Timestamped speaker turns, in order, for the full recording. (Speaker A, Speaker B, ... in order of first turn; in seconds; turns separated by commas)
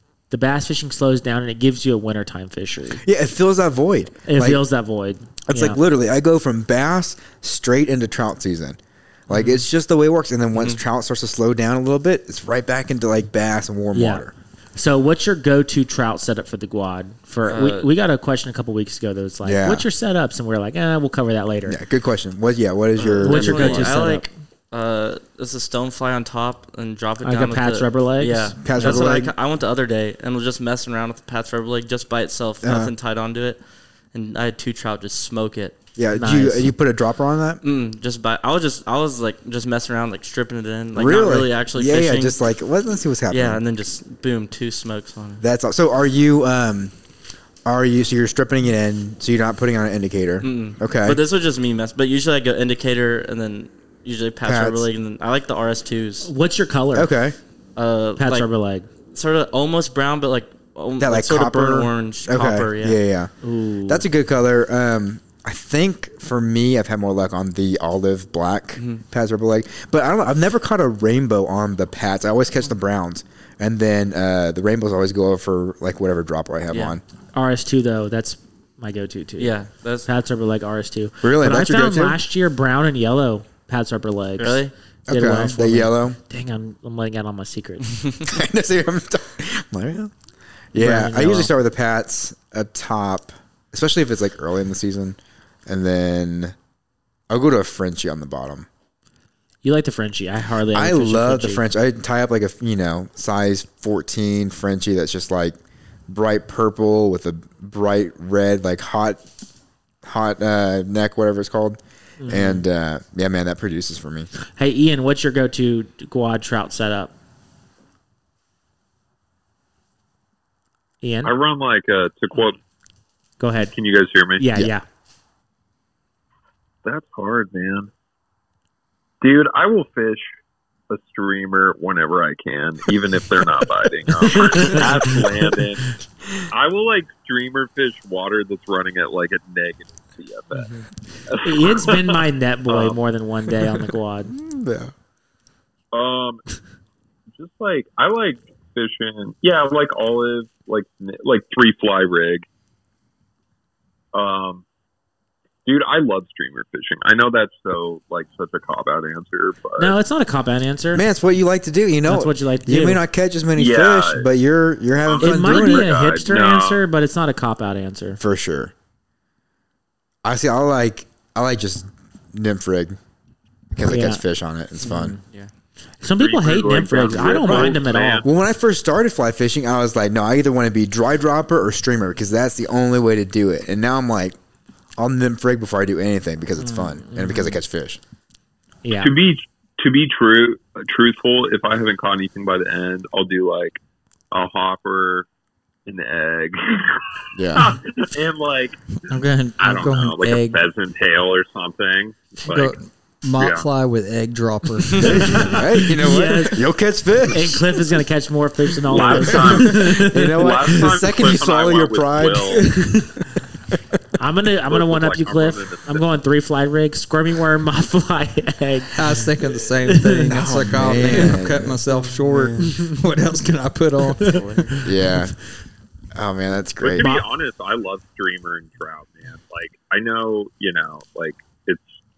Speaker A: 0.3-3.0, Speaker B: 3.0-4.6, Speaker A: 4.2-5.8, Speaker B: 5.5-14.3, Speaker A: 9.3-9.6, Speaker A: 13.9-21.8, Speaker C: 17.5-17.9, Speaker B: 19.4-19.9, Speaker B: 21.6-23.9, Speaker C: 23.0-33.6, Speaker A: 23.2-24.3, Speaker A: 27.2-29.0, Speaker B: 28.6-29.3, Speaker B: 32.6-32.9, Speaker C: 34.1-35.7, Speaker B: 36.0-37.6, Speaker A: 36.1-36.7, Speaker C: 37.6-42.4, Speaker B: 40.9-43.6, Speaker C: 43.3-45.4, Speaker B: 45.4-46.9, Speaker B: 47.6-51.2, Speaker C: 50.4-56.3, Speaker B: 54.4-54.9, Speaker A: 56.2-57.1, Speaker B: 56.9-57.4, Speaker C: 57.8-58.5, Speaker A: 58.2-58.9, Speaker C: 59.1-63.0, Speaker B: 61.0-63.3, Speaker A: 63.4-64.0, Speaker B: 63.9-77.0, Speaker C: 68.8-69.0, Speaker C: 76.7-77.0, Speaker A: 77.3-87.9, Speaker C: 79.4-80.1, Speaker B: 81.2-82.2, Speaker C: 84.4-84.7, Speaker B: 85.1-86.2, Speaker B: 88.2-90.1, Speaker B: 90.7-96.5, Speaker A: 90.8-91.5, Speaker B: 97.3-98.7, Speaker A: 99.6-101.6, Speaker B: 100.7-109.2, Speaker B: 110.0-114.3, Speaker A: 112.2-112.6, Speaker A: 114.5-117.1, Speaker A: 121.0-121.3, Speaker D: 121.2-122.6, Speaker A: 123.4-123.7, Speaker D: 123.7-124.4, Speaker A: 124.4-124.8, Speaker D: 126.8-127.9, Speaker D: 129.2-130.3, Speaker D: 130.9-135.8, Speaker A: 134.3-134.8, Speaker D: 136.5-140.7, Speaker D: 141.3-143.0, Speaker A: 141.4-144.3, Speaker B: 144.3-144.9, Speaker D: 145.9-146.4, Speaker D: 147.3-152.4, Speaker D: 154.1-154.6, Speaker D: 155.6-160.0, Speaker A: 159.8-161.0, Speaker B: 160.9-165.9, Speaker A: 162.0-163.0, Speaker D: 163.6-164.3, Speaker D: 165.0-166.8, Speaker A: 165.2-168.2, Speaker B: 168.2-168.7, Speaker B: 170.2-173.0, Speaker B: 173.7-175.2, Speaker A: 173.8-174.2, Speaker A: 174.8-175.2, Speaker A: 176.0-178.2, Speaker D: 176.1-178.2, Speaker B: 177.4-184.4, Speaker B: 185.0-188.0, Speaker A: 186.6-187.6, Speaker A: 188.8-189.1, Speaker D: 189.0-193.8, Speaker D: 194.3-195.3, Speaker D: 195.8-198.8, Speaker B: 197.3-197.7, Speaker E: 199.1-200.6, Speaker D: 199.6-202.8, Speaker E: 202.5-205.9, Speaker D: 203.3-203.7, Speaker A: 205.0-206.6, Speaker B: 205.2-207.6, Speaker A: 207.3-210.5, Speaker D: 208.9-212.7, Speaker B: 209.1-212.6, Speaker A: 212.8-213.1, Speaker A: 214.2-218.9, Speaker D: 214.7-216.0, Speaker E: 218.9-224.8, Speaker A: 219.9-220.3, Speaker B: 220.3-221.8, Speaker A: 221.9-222.9, Speaker C: 222.3-222.6, Speaker A: 224.2-224.8, Speaker C: 224.2-224.7, Speaker B: 224.8-225.3, Speaker B: 226.1-227.1, Speaker D: 226.8-231.9, Speaker A: 227.0-227.2